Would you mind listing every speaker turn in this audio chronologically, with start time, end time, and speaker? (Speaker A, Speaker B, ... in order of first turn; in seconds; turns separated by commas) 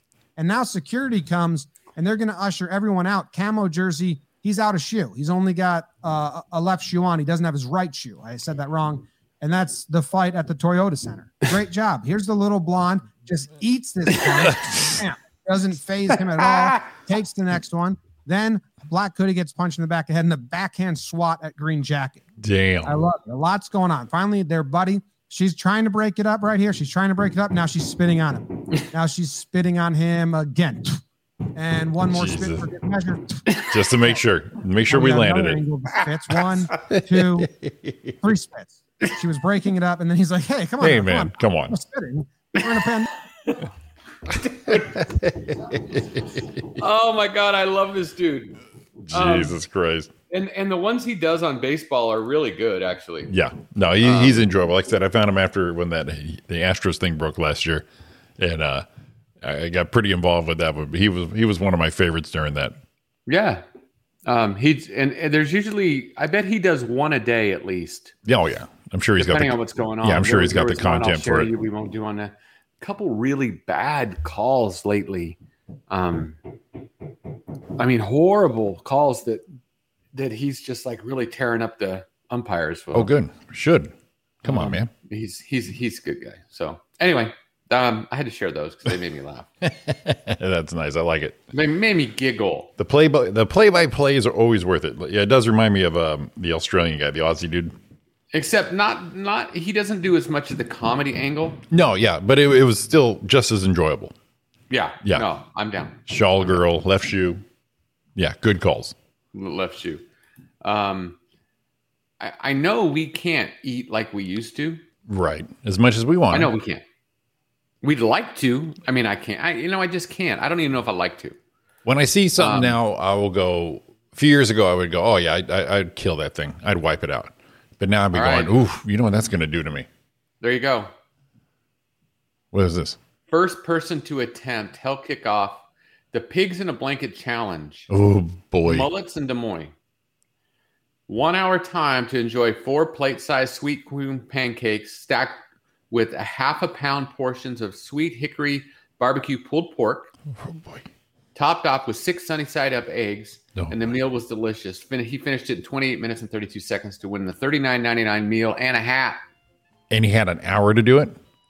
Speaker A: 0.3-22.2, Speaker B: 14.2-15.0, Speaker B: 22.4-23.0, Speaker A: 22.8-31.0, Speaker A: 31.5-34.2, Speaker B: 32.0-32.7, Speaker B: 33.6-35.6, Speaker A: 34.9-37.5, Speaker B: 36.7-38.2, Speaker A: 38.2-43.1, Speaker B: 40.8-41.8, Speaker C: 44.4-45.0, Speaker B: 44.7-46.8, Speaker C: 46.8-48.6, Speaker B: 49.1-50.1, Speaker C: 49.1-49.6, Speaker C: 50.3-53.3, Speaker B: 53.3-57.8, Speaker C: 54.0-54.5, Speaker B: 58.4-58.9, Speaker B: 59.4-62.8, Speaker C: 63.3-63.6, Speaker C: 64.2-68.1, Speaker B: 68.2-71.5, Speaker C: 69.2-75.4, Speaker C: 75.9-76.4, Speaker C: 77.8-79.4, Speaker C: 80.1-83.1, Speaker B: 82.9-84.9, Speaker C: 84.4-89.5, Speaker B: 89.6-91.4, Speaker C: 91.5-92.7, Speaker B: 92.8-97.7, Speaker C: 98.3-101.6, Speaker B: 101.7-104.1, Speaker C: 104.7-106.6, Speaker B: 106.1-107.4, Speaker B: 108.2-108.9, Speaker C: 109.3-110.0, Speaker C: 110.6-111.2, Speaker C: 112.2-114.8, Speaker B: 115.0-116.5, Speaker C: 116.3-116.8, Speaker C: 117.8-121.4, Speaker B: 121.8-129.9, Speaker C: 122.4-122.8, Speaker C: 128.1-128.5, Speaker C: 130.4-130.9, Speaker B: 132.5-133.0, Speaker C: 133.3-137.9, Speaker B: 137.9-138.9, Speaker C: 138.6-139.7, Speaker C: 141.1-150.1, Speaker B: 150.3-150.9, Speaker C: 151.3-159.2, Speaker B: 153.5-153.8, Speaker B: 159.9-161.2